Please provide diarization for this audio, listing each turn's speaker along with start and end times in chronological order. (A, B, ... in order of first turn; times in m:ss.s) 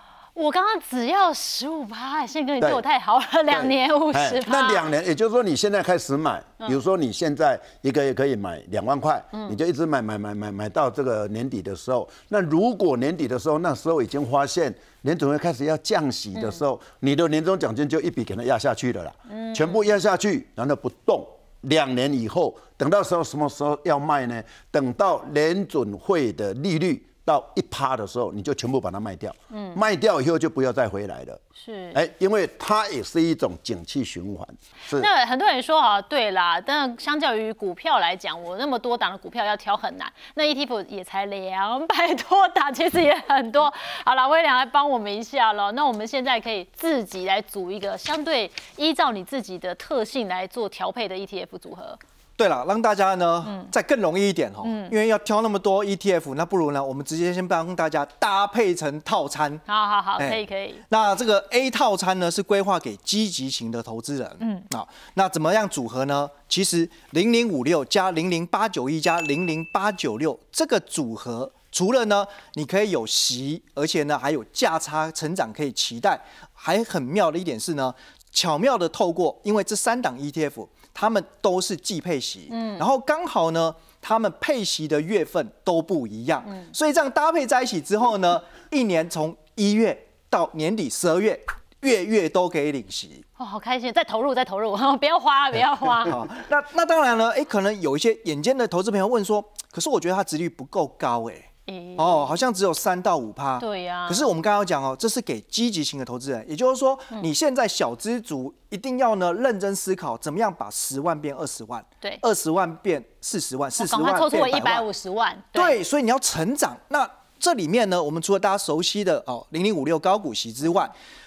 0:00.4-0:04.9 A
0:03.5-0:31.4 B
0:19.3-0:19.8 A
0:29.5-0:29.8 A
0:31.6-0:32.0 A
0:31.9-0:35.1 B
0:35.0-0:52.0 A
0:52.4-0:59.6 C
0:53.4-0:53.7 A
0:54.6-0:54.9 A
0:59.7-1:00.8 A
1:00.2-1:33.2 C
1:04.4-1:04.7 A
1:22.5-1:22.8 A
1:33.4-1:36.3 A
1:36.0-1:54.9 C
1:41.7-1:42.4 A
1:43.6-1:44.3 A
1:53.8-1:55.8 A
1:55.5-2:00.9 C